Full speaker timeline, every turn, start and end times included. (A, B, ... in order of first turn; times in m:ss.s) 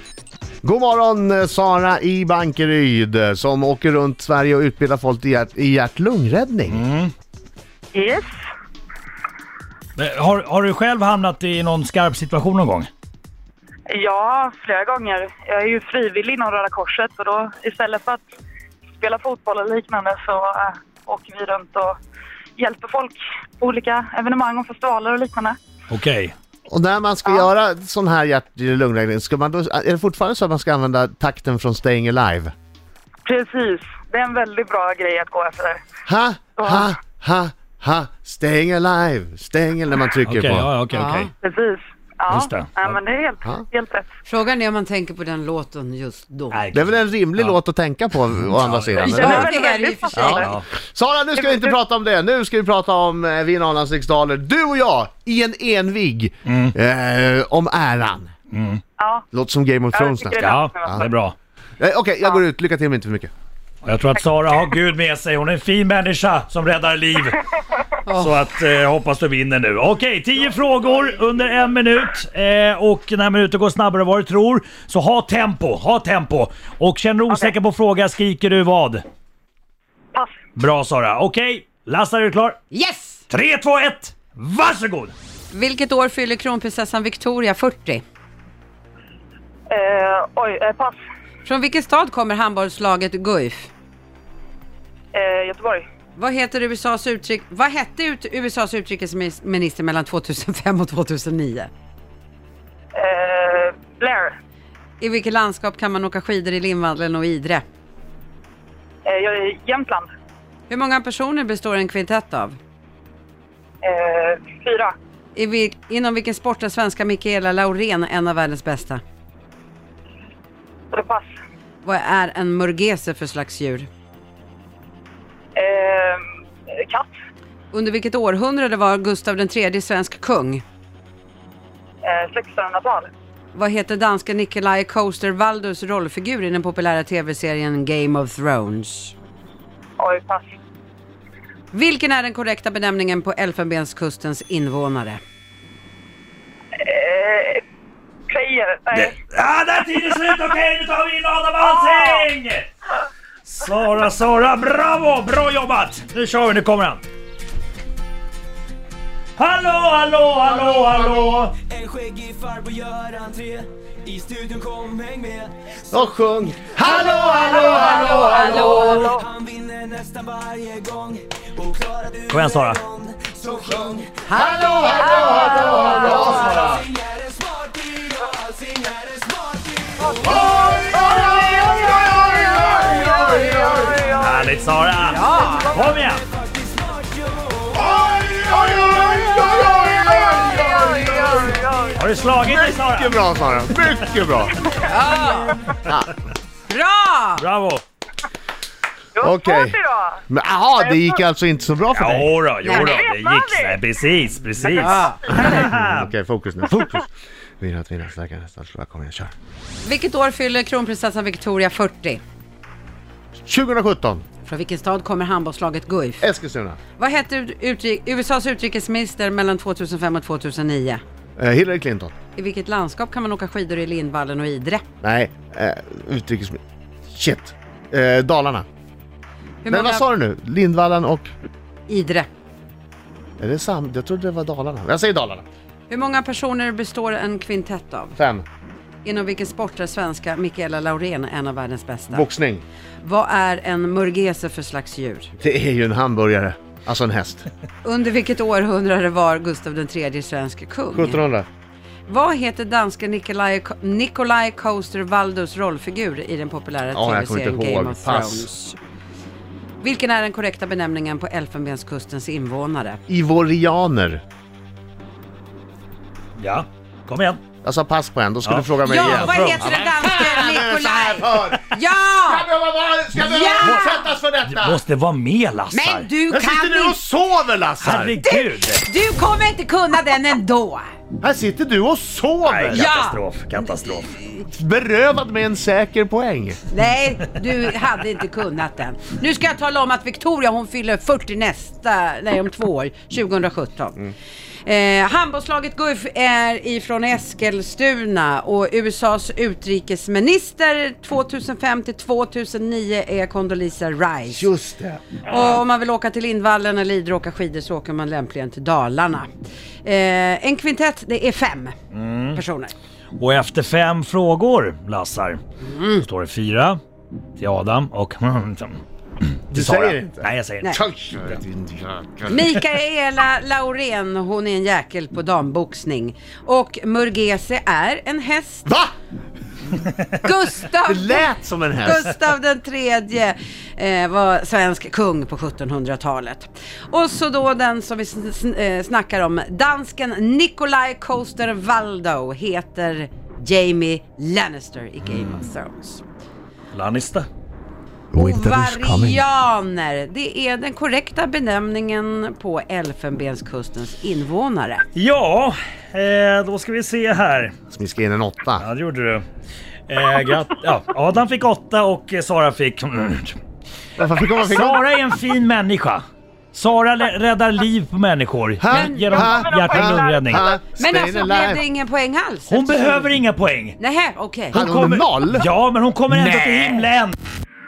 0:00.6-0:06.8 A
0:06.7-0:07.1 B
0:07.9-0:08.3 C
0:10.0-0:12.9 B
0:13.9-0:18.2 C
0:19.0-0:22.0 C
0:22.6-0:25.6 C
0:25.9-0:26.3 B
0:26.7-0:32.5 A
0:33.2-0:35.8 C
0:36.0-0:40.7 A
0:36.6-0:36.9 C
0:40.3-0:41.3 B
0:40.9-0:41.3 D
0:41.4-0:44.1 C
0:42.3-0:42.7 B
0:42.9-0:43.6 A
0:44.2-0:46.6 D
0:46.5-0:47.6 B
0:46.7-0:49.5 A
0:48.4-0:49.3 B
0:49.0-0:50.5 C
0:49.1-0:50.5 D
0:50.1-0:58.3 A
0:50.3-0:50.6 B
0:56.4-0:56.7 B
0:58.5-0:58.8 B
0:59.0-0:59.2 C
0:59.3-1:01.0 A
0:59.9-1:01.1 C
1:00.4-1:01.3 B
1:01.8-1:03.3 A
1:03.8-1:07.5 B
1:08.0-1:08.3 D
1:08.0-1:19.0 B
1:20.6-1:22.6 B
1:22.7-1:23.2 D
1:23.3-1:25.1 B
1:25.5-1:28.0 D
1:29.7-1:31.0 C
1:31.4-1:33.7 D
1:35.1-1:35.9 C
1:36.2-1:41.7 D
1:42.9-1:44.4 C
1:45.0-1:47.6 D
1:49.0-1:50.1 C
1:50.7-1:52.6 D
1:53.8-1:54.9 C
1:55.3-1:59.0 D
2:00.9-2:01.3 C
2:01.8-2:03.9 D
2:05.6-2:07.1 C
2:07.7-2:10.6 D
2:12.0-2:13.1 C
2:13.5-2:19.1 D
2:20.0-2:20.5 C
2:21.7-2:25.2 D
2:26.7-2:27.6 C
2:28.3-2:29.1 C
2:28.9-2:32.7 B
2:33.4-2:37.0 B
2:39.4-2:41.6 B
2:40.7-2:41.0 A
2:41.6-2:45.5 E
2:45.9-2:49.0 A
2:47.4-2:49.0 D
2:47.5-2:49.3 C
2:49.4-2:52.3 E
2:52.3-2:52.8 B
2:52.8-2:54.2 E
2:54.2-2:55.1 D
2:54.3-2:56.8 A
2:55.0-2:56.6 C
2:56.3-2:56.8 B
2:56.3-2:59.9 E
3:00.0-3:04.4 C
3:00.1-3:04.0 A
3:04.2-3:06.2 B
3:05.0-3:05.8 D
3:06.3-3:07.7 E
3:07.7-3:11.6 A
3:08.5-3:12.0 C
3:11.9-3:13.2 B
3:12.4-3:14.7 A
3:14.8-3:15.8 D
3:15.8-3:16.1 A
3:16.7-3:17.4 D
3:17.4-3:17.8 B
3:19.2-3:20.2 C
3:19.2-3:19.8 A
3:20.3-3:22.3 A
3:20.8-3:21.0 C
3:21.9-3:26.1 B
3:22.6-3:22.9 D
3:22.7-3:23.8 C
3:24.6-3:25.5 C
3:24.7-3:25.6 D
3:25.3-3:29.3 A
3:29.8-3:32.2 D
3:33.4-3:34.2 A
3:34.4-3:36.2 D
3:36.2-3:36.8 A
3:37.0-3:41.0 D
3:41.4-3:42.1 A
3:42.3-3:44.8 D
3:45.0-3:48.6 A
3:49.6-3:50.0 D
3:49.7-3:51.3 A
3:51.9-3:52.3 D
3:53.4-3:55.4 A
3:55.9-3:58.1 D
3:58.2-3:58.4 A
3:59.0-4:02.3 D
4:02.1-4:02.6 A
4:03.0-4:05.3 D
4:05.4-4:07.4 A
4:07.8-4:11.2 D
4:10.9-4:11.5 A
4:12.1-4:18.8 D
4:16.9-4:18.5 A
4:19.8-4:23.0 D
4:23.1-4:24.2 A
4:26.4-4:27.4 B
4:27.6-4:34.8 A
4:28.4-4:29.8 B
4:28.8-4:32.5 D
4:33.2-4:33.8 B
4:33.2-4:34.1 D
4:34.4-4:36.1 B
4:35.7-4:37.0 D
4:36.3-4:38.2 A
4:37.8-4:38.8 B
4:38.2-4:40.9 D
4:41.2-4:42.9 A
4:42.4-4:44.2 B
4:42.7-4:43.2 D
4:44.5-4:46.6 A
4:46.7-4:54.1 D
4:54.6-5:04.5 D
5:04.3-5:05.4 A
5:05.2-5:09.3 D
5:09.8-5:11.7 D
5:11.9-5:12.4 B
5:12.3-5:12.7 D
5:13.2-5:15.4 B
5:15.6-5:16.0 D
5:16.0-5:16.8 B
5:17.4-5:21.4 B
5:19.5-5:22.6 A
5:22.3-5:28.7 D
5:28.6-5:28.9 A
5:30.2-5:46.0 D
5:30.8-5:32.1 A
5:46.7-5:47.3 B
5:48.1-5:49.2 A
5:48.1-5:54.8 D
5:54.9-5:57.5 B
5:57.7-5:58.6 A
5:58.6-5:59.2 B
5:59.9-6:03.4 B
6:04.0-6:04.8 A
6:04.3-6:10.4 B
6:08.6-6:11.6 A
6:08.7-6:09.2 D
6:09.1-6:10.4 C
6:10.8-6:13.1 D
6:12.5-6:13.8 B
6:13.8-6:14.6 D
6:14.5-6:17.2 B
6:14.5-6:15.5 A
6:16.1-6:16.9 A